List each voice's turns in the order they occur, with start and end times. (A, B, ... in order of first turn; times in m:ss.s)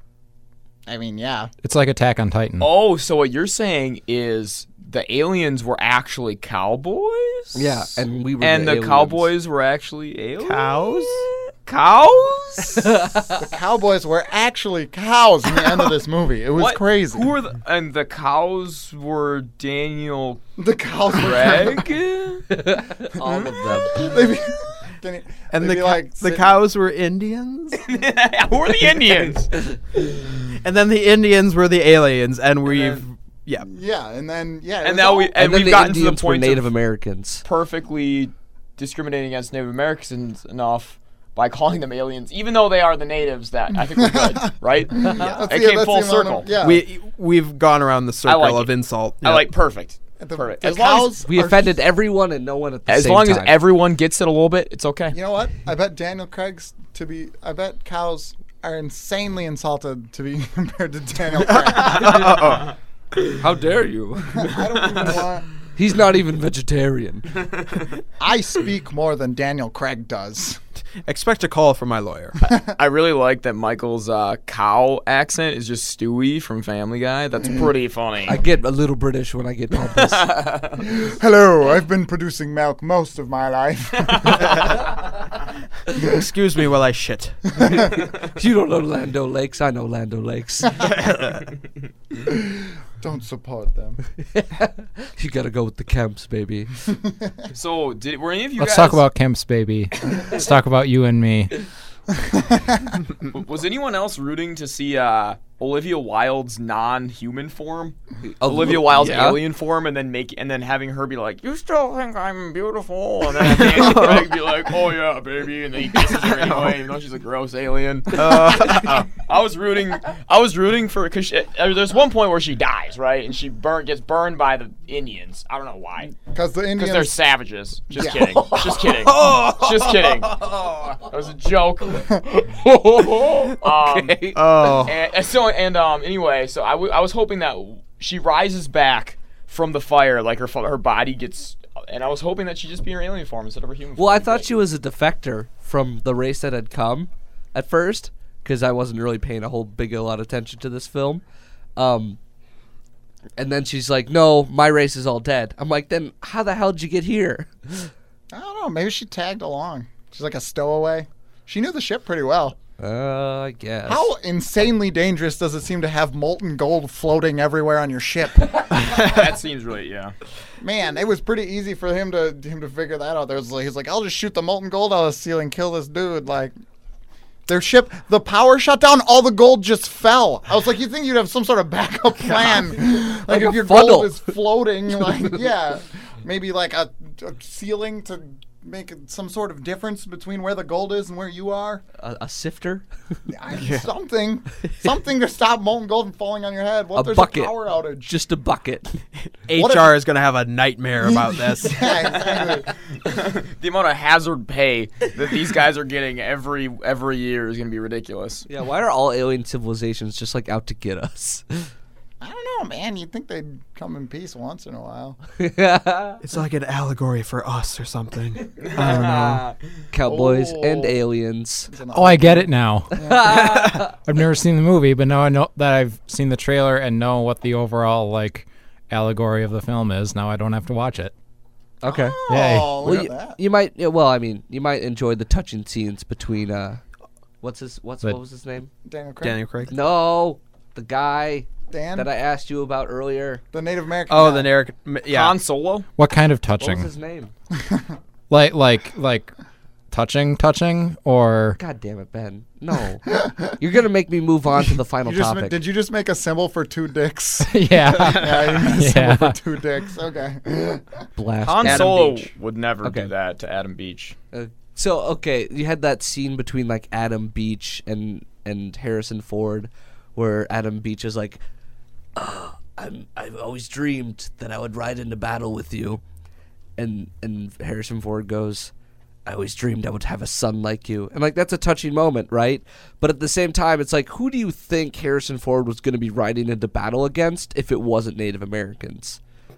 0:00.9-0:01.5 A
0:01.6-0:02.7 B
0:02.6-0:13.0 C
0:07.6-0:09.3 D
0:10.4-0:11.3 E
0:12.8-0:13.4 D
0:13.4-0:17.3 A
0:16.6-0:20.4 C
0:20.6-0:21.9 A
0:21.1-0:22.6 C
0:22.5-0:24.1 D
0:23.2-0:23.6 C
0:23.8-0:26.6 A
0:25.5-0:27.8 E
0:27.8-0:29.5 C
0:30.4-0:33.7 E
0:33.6-0:35.4 A
0:34.8-0:36.6 C
0:35.4-0:37.4 D
0:37.4-0:46.5 C
0:44.0-0:44.4 A
0:45.0-0:46.8 A
0:46.6-0:49.5 E
0:48.3-0:51.2 C
0:50.2-0:51.7 A
0:51.3-0:53.6 D
0:52.9-0:55.2 C
0:55.1-1:02.4 A
1:01.4-1:02.8 E
1:03.4-1:04.6 D
1:04.3-1:05.5 A
1:05.8-1:07.5 D
1:08.2-1:10.6 A
1:11.0-1:12.4 E
1:12.5-1:12.7 A
1:12.6-1:18.4 C
1:18.3-1:20.3 D
1:19.9-1:20.8 C
1:20.8-1:24.7 A
1:24.5-1:24.7 E
1:26.0-1:27.7 E
1:27.7-1:30.8 D
1:30.8-1:31.5 E
1:32.2-1:34.0 A
1:34.4-1:36.7 D
1:37.0-1:37.3 A
1:37.5-1:39.0 C
1:38.6-1:41.5 B
1:42.2-1:43.0 A
1:43.2-2:06.2 C
1:48.2-1:49.4 D
1:53.4-1:54.3 E
1:56.3-1:56.8 E
1:58.1-1:59.1 E
2:06.2-2:07.2 A
2:06.8-2:10.5 C
2:07.9-2:08.8 A
2:08.8-2:11.0 E
2:11.0-2:24.5 C
2:13.6-2:14.4 D
2:14.3-2:15.0 E
2:24.0-2:31.2 D
2:31.8-2:32.2 D
2:33.4-2:37.9 D
2:38.3-2:42.6 A
2:42.8-2:44.1 D
2:43.9-2:48.6 A
2:48.7-2:49.2 E
2:48.8-2:50.2 C
2:50.6-2:56.5 A
2:57.5-3:11.8 A
3:03.0-3:04.3 D
3:12.0-3:12.8 D
3:13.3-3:18.1 A
3:13.6-3:13.9 E
3:16.9-3:17.5 D
3:18.0-3:19.0 D
3:19.5-3:22.0 E
3:19.6-3:20.0 A
3:21.0-3:22.7 A
3:22.4-3:28.5 C
3:28.5-3:31.7 D
3:32.2-3:35.2 A
3:35.4-3:36.2 D
3:36.2-3:39.5 E
3:38.6-3:39.6 C
3:38.8-3:39.2 A
3:39.9-3:41.7 D
3:40.1-3:41.0 A
3:41.7-3:43.4 A
3:41.9-3:43.3 B
3:43.0-3:43.9 D
3:43.9-3:51.1 B
3:51.8-3:52.2 D
3:51.8-3:53.4 A
3:52.3-3:52.8 B
3:52.8-3:56.8 D
3:57.4-3:58.7 D
3:58.9-3:59.4 A
3:59.2-3:59.7 E
3:59.7-4:03.4 D
4:01.7-4:02.1 A
4:03.5-4:04.5 A
4:04.1-4:05.4 E
4:05.1-4:05.9 C
4:06.0-4:06.9 B
4:06.6-4:07.3 D
4:07.6-4:07.8 A
4:08.3-4:09.3 B
4:09.9-4:11.6 B
4:11.6-4:15.6 D
4:15.0-4:21.0 A
4:17.4-4:19.4 B
4:18.0-4:18.5 E
4:21.2-4:22.3 D
4:21.4-4:24.2 C
4:22.8-4:23.1 D
4:24.3-4:31.4 D
4:32.2-4:36.0 D
4:36.8-4:38.7 D
4:39.3-4:49.2 D